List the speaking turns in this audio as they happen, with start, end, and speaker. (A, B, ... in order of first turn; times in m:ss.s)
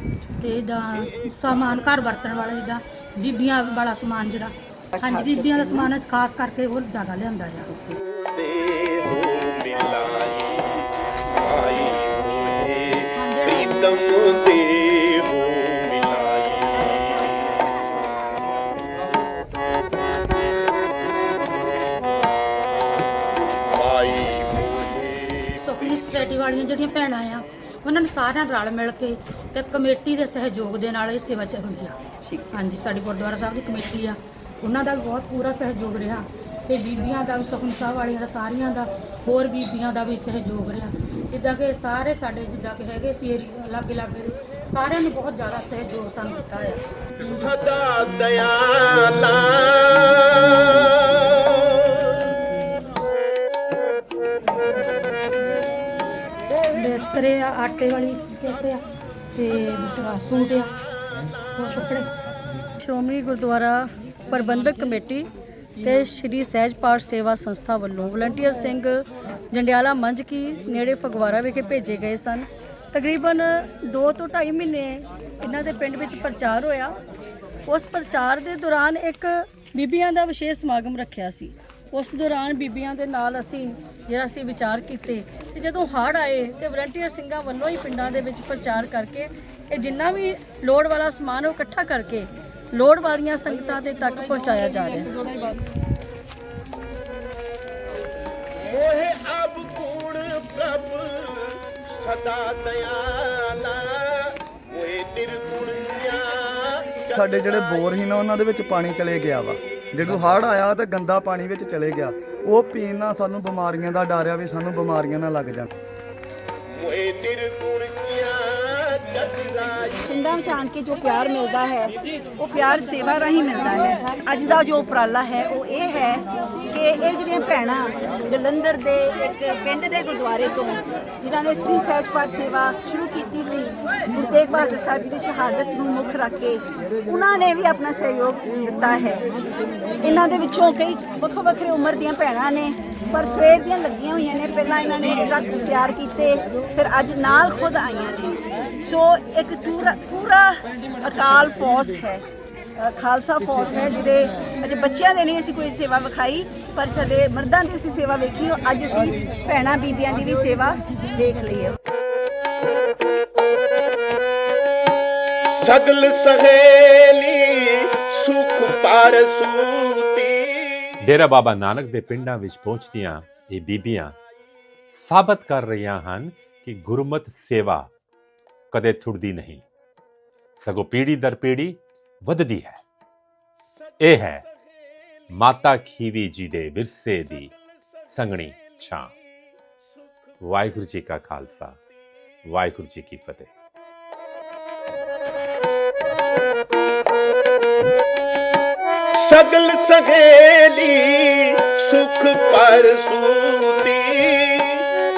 0:00.4-0:07.7 A
0:05.0-0:05.9 B
0:07.9-0:17.8 C
0:13.2-0:13.9 A
0:23.6-0:25.6 C
0:25.6-0:46.8 A
0:47.2-0:52.2 C
0:56.5-1:00.7 A
1:01.5-1:02.1 A
1:02.8-1:05.3 D
1:05.8-1:17.0 D
1:17.7-1:35.1 D
1:38.6-1:47.7 C
1:47.1-1:55.7 E
1:56.7-2:00.1 C
2:00.1-2:19.2 B
2:20.0-2:32.2 B
2:32.8-2:41.8 B
2:45.5-2:50.8 C
2:51.0-2:54.2 F
2:54.9-2:57.9 F
2:58.7-2:59.6 F
3:00.6-3:02.8 F
3:04.0-3:04.4 F
3:05.3-3:07.5 F
3:08.0-3:09.1 F
3:10.4-3:11.8 F
3:12.5-3:13.5 F
3:19.2-3:24.8 C